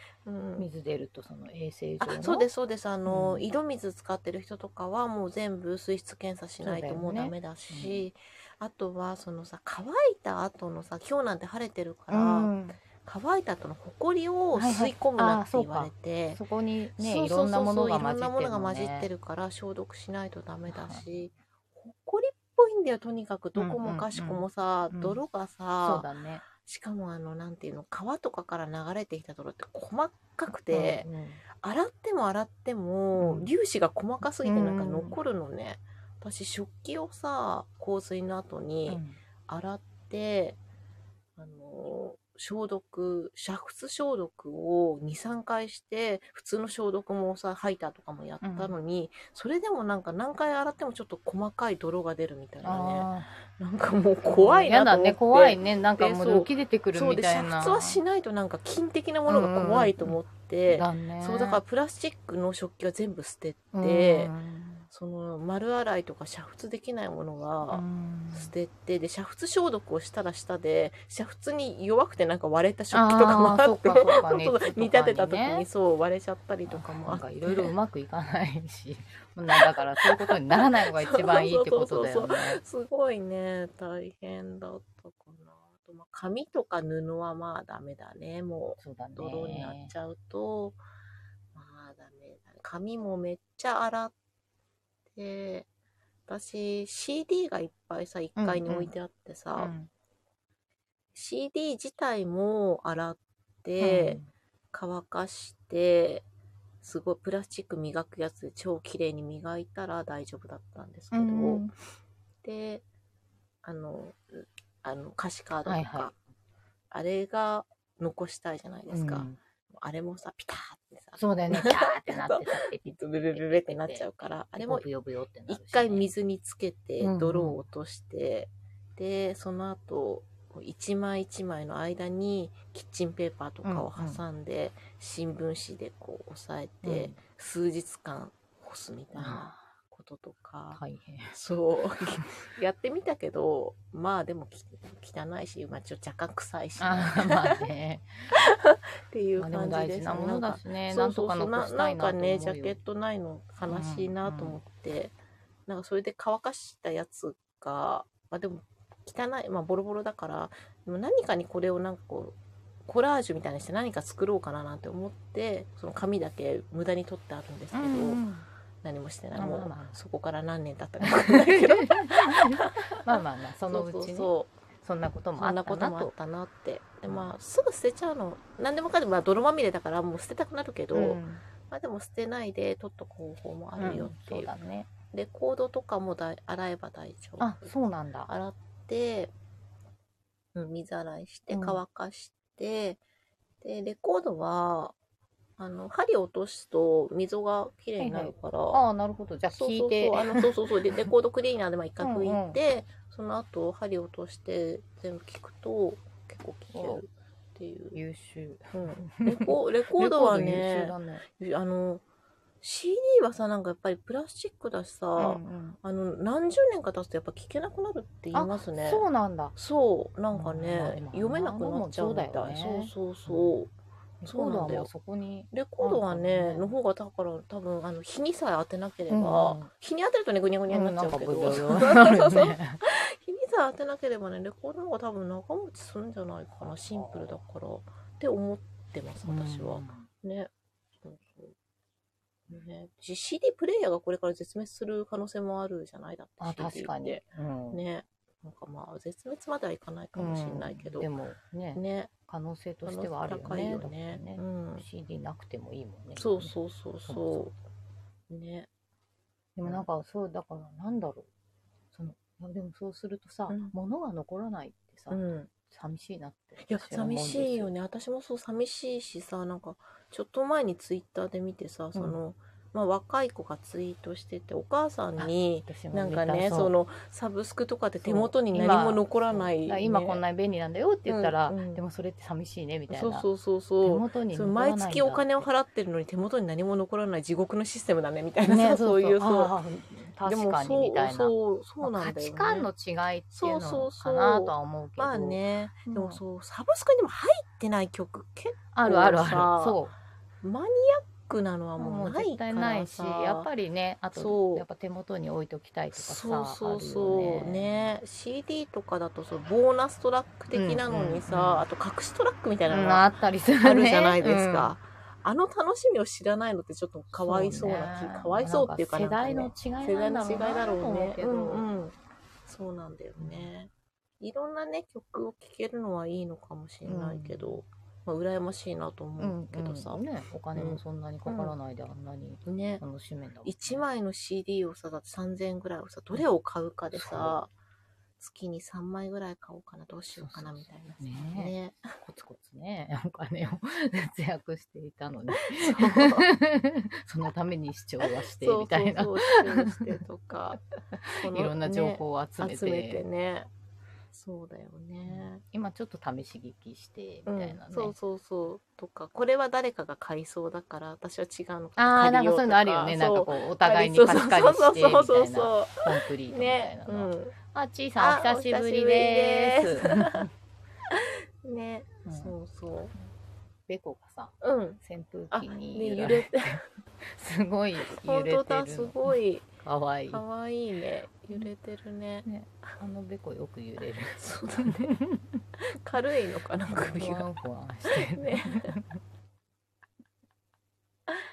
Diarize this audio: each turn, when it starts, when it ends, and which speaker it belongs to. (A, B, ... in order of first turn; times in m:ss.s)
0:00.2-0:00.7 A
0:00.6-0:02.5 B
0:02.0-0:16.4 A
0:03.1-0:03.4 B
0:06.6-0:08.1 B
0:12.1-0:12.8 B
0:14.5-0:19.1 B
0:17.0-0:31.1 A
0:20.7-0:21.1 B
0:23.6-0:25.2 B
0:25.8-0:26.4 B
0:30.7-0:31.4 B
0:31.6-0:40.6 A
0:33.2-0:33.5 B
0:34.4-0:35.2 B
0:38.9-0:39.2 B
0:41.4-1:04.3 A
0:48.4-0:48.7 B
0:52.6-0:53.3 B
0:54.3-0:58.0 B
0:59.3-1:01.6 B
1:03.7-1:04.9 B
1:04.9-1:17.7 A
1:07.7-1:08.5 B
1:12.9-1:15.7 B
1:16.7-1:22.6 B
1:19.5-1:30.8 A
1:28.8-1:29.9 B
1:31.5-1:34.2 A
1:35.1-1:35.7 A
1:36.3-1:39.7 A
1:38.4-1:38.9 B
1:39.6-1:39.9 B
1:41.1-1:44.2 A
1:43.8-1:44.3 B
1:44.7-1:46.3 A
1:46.8-1:51.7 A
1:51.1-1:51.7 B
1:52.4-1:52.8 A
1:53.6-1:56.2 A
1:55.6-1:56.2 B
1:56.9-2:04.9 A
1:58.9-1:59.4 B
2:01.2-2:06.1 B
2:05.5-2:27.6 A
2:07.0-2:07.6 B
2:13.6-2:14.2 B
2:16.8-2:17.2 B
2:19.2-2:19.7 B
2:20.7-2:21.4 B
2:26.8-2:28.3 B
2:28.3-2:35.2 A
2:29.4-2:32.8 B
2:33.7-2:34.6 B
2:35.7-2:48.2 A
2:47.7-2:48.5 B
2:48.8-2:54.5 A
2:49.4-2:50.0 B
2:51.0-2:56.1 B
2:55.4-3:04.5 A
2:57.1-2:57.3 B
3:00.9-3:01.4 B
3:03.8-3:04.9 B
3:05.1-3:07.7 A
3:07.4-3:08.3 B
3:08.3-3:09.3 A
3:10.6-3:13.0 A
3:11.5-3:11.8 B
3:13.6-3:15.0 A
3:15.6-3:18.8 A
3:18.0-3:21.0 B
3:19.5-3:28.0 A
3:22.0-3:22.6 B
3:26.7-3:27.0 B
3:27.9-3:31.2 B
3:28.7-3:32.0 A
3:32.6-3:44.9 A
3:35.2-3:35.8 B
3:38.3-3:39.6 B
3:40.3-3:43.5 B
3:44.2-3:46.7 B
3:45.5-4:01.6 A
3:49.1-3:49.7 B
3:50.7-3:52.8 B
3:56.9-3:57.4 B
3:59.2-4:00.1 B
4:02.5-4:11.1 A
4:06.4-4:07.8 B
4:10.2-4:17.5 B
4:11.8-4:12.1 A
4:12.8-4:14.8 A
4:16.2-4:17.5 A
4:18.3-4:18.7 A
4:19.6-4:21.3 B
4:21.9-4:27.7 B
4:23.5-4:23.8 A
4:25.1-4:25.5 A
4:26.6-4:40.2 A
4:31.9-4:32.2 B
4:35.2-4:36.7 B
4:38.0-4:43.3 B
4:41.1-4:41.8 A
4:42.9-4:49.5 A
4:43.8-4:45.5 B
4:48.4-4:56.2 B
4:50.2-4:52.7 A
4:53.3-4:59.8 A
4:58.7-5:00.0 B
5:00.4-5:03.5 A
5:01.8-5:07.9 B
5:04.1-5:04.7 A
5:05.9-5:22.0 A
5:10.5-5:11.7 B
5:12.7-5:14.7 B
5:17.1-5:21.7 B
5:22.5-5:30.0 A
5:23.2-5:23.5 B
5:26.8-5:27.6 B
5:29.2-5:33.8 B
5:30.6-5:31.6 A
5:32.4-5:32.8 A
5:33.4-5:37.5 A
5:36.9-5:37.4 B
5:38.2-5:41.9 A
5:40.2-5:50.0 B
5:45.4-5:46.3 A
5:48.0-5:50.6 A
5:51.0-5:53.0 B
5:51.1-5:53.5 A
5:54.1-5:55.4 A
5:55.0-5:58.0 B
5:57.3-6:07.4 A
6:01.8-6:10.3 B
6:08.0-6:10.3 A
6:10.9-6:12.9 A
6:12.0-6:12.4 B
6:13.7-6:20.2 B
6:14.4-6:14.8 A
6:15.3-6:16.6 A
6:17.8-6:19.5 A
6:20.1-6:22.3 A
6:22.2-6:25.4 B
6:24.1-6:24.9 A
6:25.6-6:27.3 A
6:26.7-6:29.0 B
6:27.9-6:28.8 A